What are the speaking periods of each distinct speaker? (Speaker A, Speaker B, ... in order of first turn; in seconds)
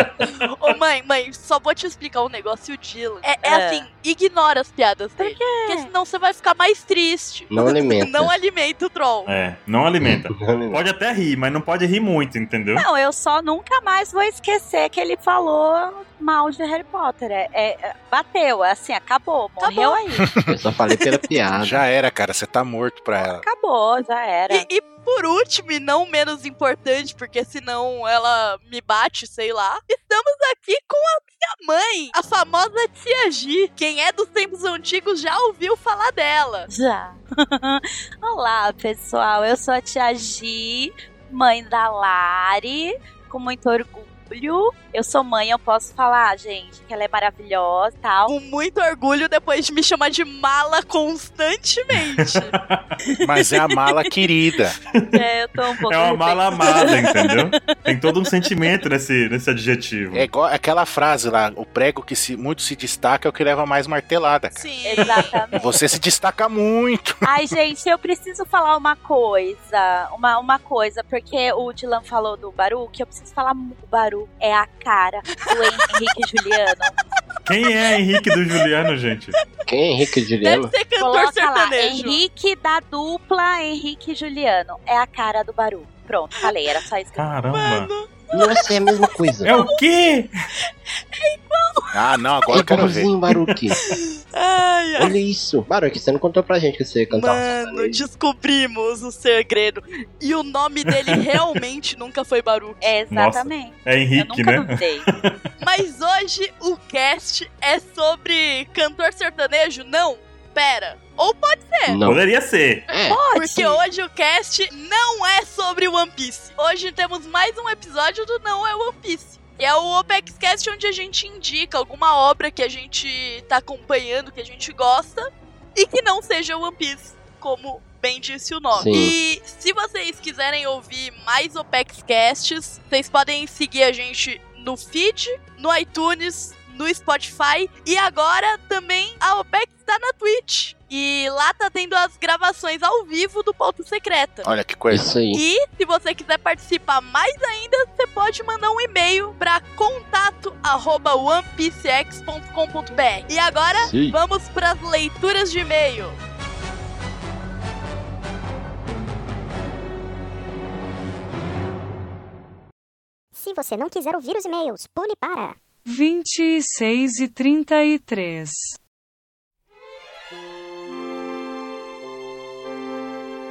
Speaker A: 0.2-9.3, 19.6-20.2, 21.0-21.3, 24.5-36.7, 48.2-52.5, 64.5-65.3, 75.5-75.9, 80.4-82.2, 87.5-89.8, 91.1-91.9, 93.8-95.1, 97.1-102.9, 105.6-112.0, 113.3-144.5, 145.3-156.2
Speaker B: 3.4-3.9, 5.2-5.9, 12.7-20.2, 23.3-24.7, 36.7-48.3, 55.1-57.8, 64.8-65.7, 67.2-76.9, 81.0-87.3, 102.8-105.0, 113.0-113.8
Speaker C: 7.5-8.4, 10.0-10.8, 20.4-21.8, 79.7-80.7, 88.3-89.6, 92.5-93.8, 95.0-98.0, 111.9-112.2, 112.9-113.2, 128.7-129.1, 144.9-145.4, 153.8-154.2
Speaker D: 9.2-12.8, 52.5-52.8, 55.0-55.2, 55.9-60.3, 77.4-79.3, 87.2-87.9, 89.4-90.3, 103.1-105.3, 112.0-112.8
Speaker E: 21.6-23.4, 53.2-54.8, 60.1-64.6, 65.5-67.2, 91.9-93.1, 144.4-145.1
Speaker F: 163.3-165.6
Speaker G: 165.8-168.8